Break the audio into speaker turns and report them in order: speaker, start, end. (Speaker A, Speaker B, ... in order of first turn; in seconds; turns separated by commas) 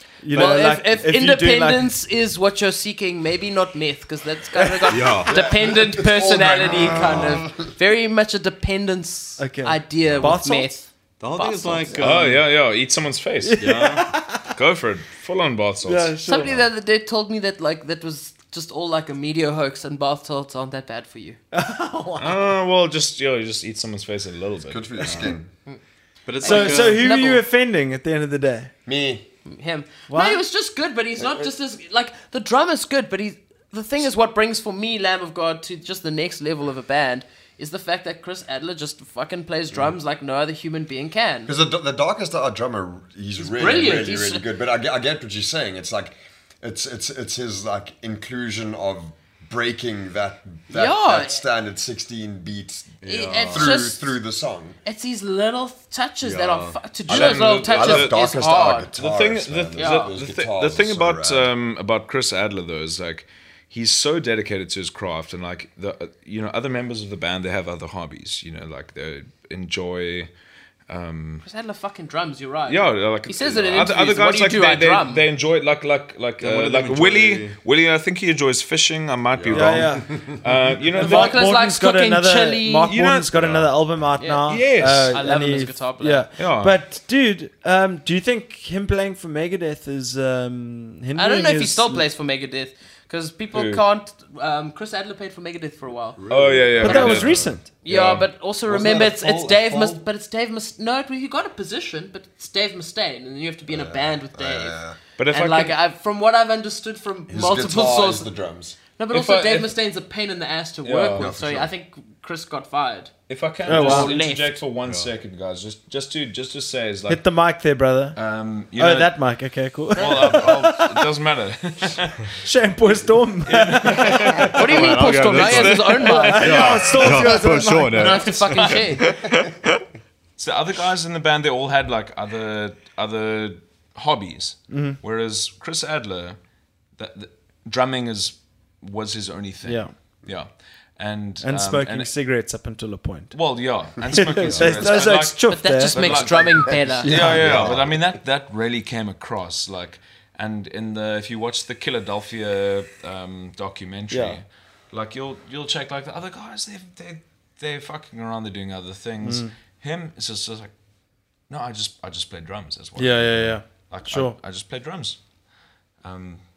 Speaker A: 0.2-1.9, Speaker B: 0.3-12.1, Speaker C: 4.9-5.4, Speaker D: 5.3-7.7, Speaker C: 6.8-7.3, Speaker A: 9.4-10.7, Speaker C: 11.2-12.4, Speaker E: 12.0-16.1, Speaker A: 13.4-14.5, Speaker C: 13.6-14.0, Speaker A: 15.8-16.6, Speaker B: 16.2-21.4, Speaker A: 21.5-22.4, Speaker E: 22.2-24.9, Speaker D: 24.7-25.5, Speaker C: 25.0-25.4, Speaker C: 26.2-27.0, Speaker B: 26.4-27.4, Speaker A: 26.4-28.7, Speaker D: 28.9-29.3, Speaker B: 29.4-41.5, Speaker A: 30.1-30.4, Speaker D: 31.2-31.4, Speaker D: 41.5-54.8, Speaker B: 43.4-44.5, Speaker B: 50.7-51.4, Speaker C: 53.0-53.7, Speaker B: 53.0-54.0, Speaker B: 54.8-58.9, Speaker C: 56.2-56.8, Speaker E: 57.1-58.2, Speaker D: 57.1-61.5, Speaker E: 58.9-70.3, Speaker B: 59.7-60.1, Speaker E: 70.9-71.4, Speaker B: 71.4-75.2, Speaker E: 72.7-81.5, Speaker C: 76.4-77.5, Speaker C: 79.3-79.9, Speaker A: 79.5-92.0, Speaker B: 81.0-82.9, Speaker E: 82.8-83.7, Speaker B: 84.2-86.2, Speaker E: 84.4-85.2, Speaker E: 86.4-86.8, Speaker B: 91.1-96.2, Speaker E: 93.5-93.8, Speaker C: 96.2-97.5, Speaker E: 96.3-98.3, Speaker B: 96.8-97.2, Speaker A: 96.8-97.7, Speaker B: 97.8-104.8, Speaker D: 98.7-100.0, Speaker D: 103.7-105.0, Speaker E: 105.2-105.8, Speaker B: 105.3-108.3, Speaker D: 107.3-108.8, Speaker B: 109.0-113.1, Speaker E: 109.1-109.7, Speaker E: 110.8-111.3, Speaker D: 111.2-111.7, Speaker E: 113.3-117.2, Speaker B: 113.6-114.6, Speaker A: 113.7-114.2, Speaker C: 114.8-115.1, Speaker A: 117.1-118.2, Speaker E: 118.1-119.2, Speaker A: 118.8-121.0, Speaker E: 120.0-122.3, Speaker A: 122.3-124.5, Speaker E: 123.5-127.4, Speaker C: 124.4-129.5, Speaker B: 124.5-126.6, Speaker A: 126.0-128.2, Speaker B: 127.4-129.0, Speaker E: 128.5-129.2, Speaker E: 130.4-136.4, Speaker A: 134.7-135.0, Speaker E: 137.0-142.1, Speaker A: 139.6-139.9, Speaker A: 141.4-143.3, Speaker E: 143.3-160.7, Speaker D: 144.0-145.1, Speaker A: 144.1-146.4, Speaker B: 145.5-147.2, Speaker D: 146.4-148.0, Speaker A: 147.0-147.7, Speaker A: 154.1-154.4, Speaker A: 159.2-159.5, Speaker E: 161.5-165.2, Speaker A: 163.0-164.3, Speaker E: 166.0-166.4